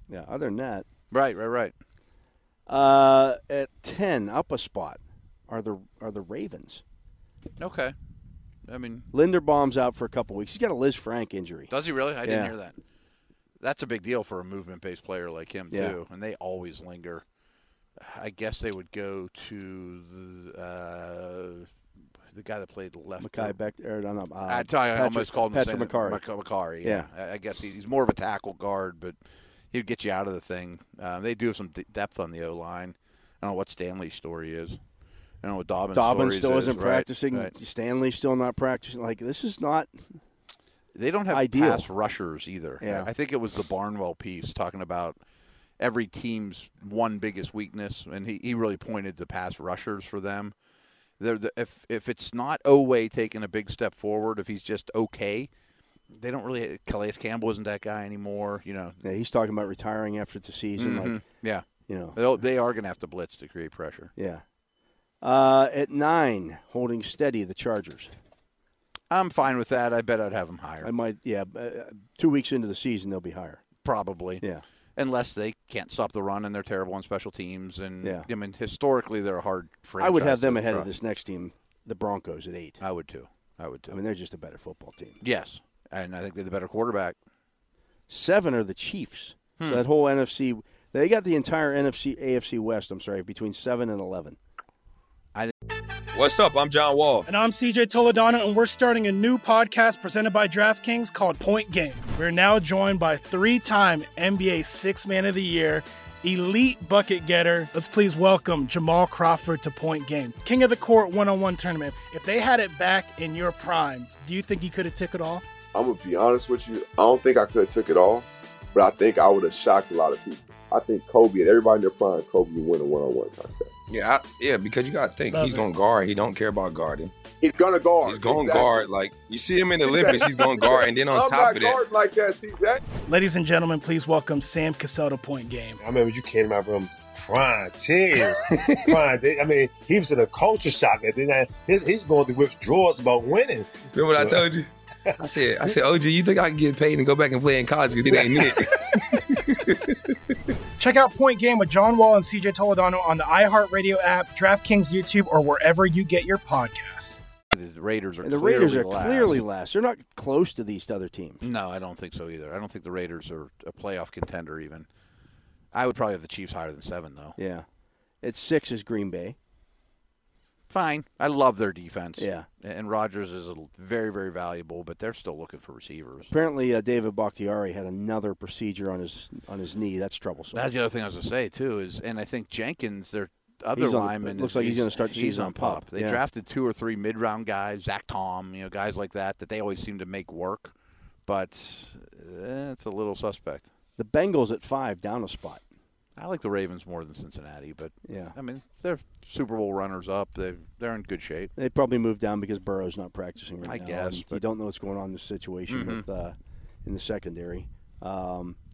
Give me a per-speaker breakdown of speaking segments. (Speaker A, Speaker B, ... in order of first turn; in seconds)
Speaker A: 0.1-0.9, 2.7-6.8, 9.1-11.7, 12.2-12.5, 15.7-15.9, 23.2-26.2, 26.8-27.1, 35.9-40.1, 41.3-41.9, 42.8-43.1, 59.0-61.2, 61.9-62.2, 64.2-64.4, 65.2-68.1, 70.8-73.6, 78.0-78.3, 80.0-82.8, 83.9-85.2, 88.1-94.4, 158.2-161.4, 167.4-167.7, 168.2-169.4, 172.2-172.4, 176.3-180.6, 183.8-186.2, 194.0-195.6, 198.1-198.3, 201.6-208.6
Speaker B: 1.1-1.7, 7.6-7.9, 8.7-9.1, 11.7-12.8, 13.6-17.2, 18.0-21.7, 22.3-23.5, 24.5-29.2, 29.7-34.8, 35.4-37.5, 40.9-45.2, 45.8-50.5, 51.2-55.5, 56.1-59.0, 60.8-64.1, 69.1-70.9, 73.8-74.4, 75.0-80.9, 82.8-84.0, 85.2-87.2, 89.6-89.8, 157.5-159.4, 161.4-164.9, 165.7-167.3, 170.7-176.3, 180.5-190.7, 191.2-193.7, 196.2-201.5, 203.6-204.4, 205.7-206.0
Speaker C: 96.1-97.3, 123.9-127.1, 128.0-131.8, 138.6-138.9, 143.9-150.1
Speaker D: 97.3-115.4, 125.3-125.7, 133.1-135.8, 150.8-157.2
Speaker E: 115.7-123.7, 127.4-128.8, 129.8-132.8
Speaker F: 135.8-144.4, 148.1-148.5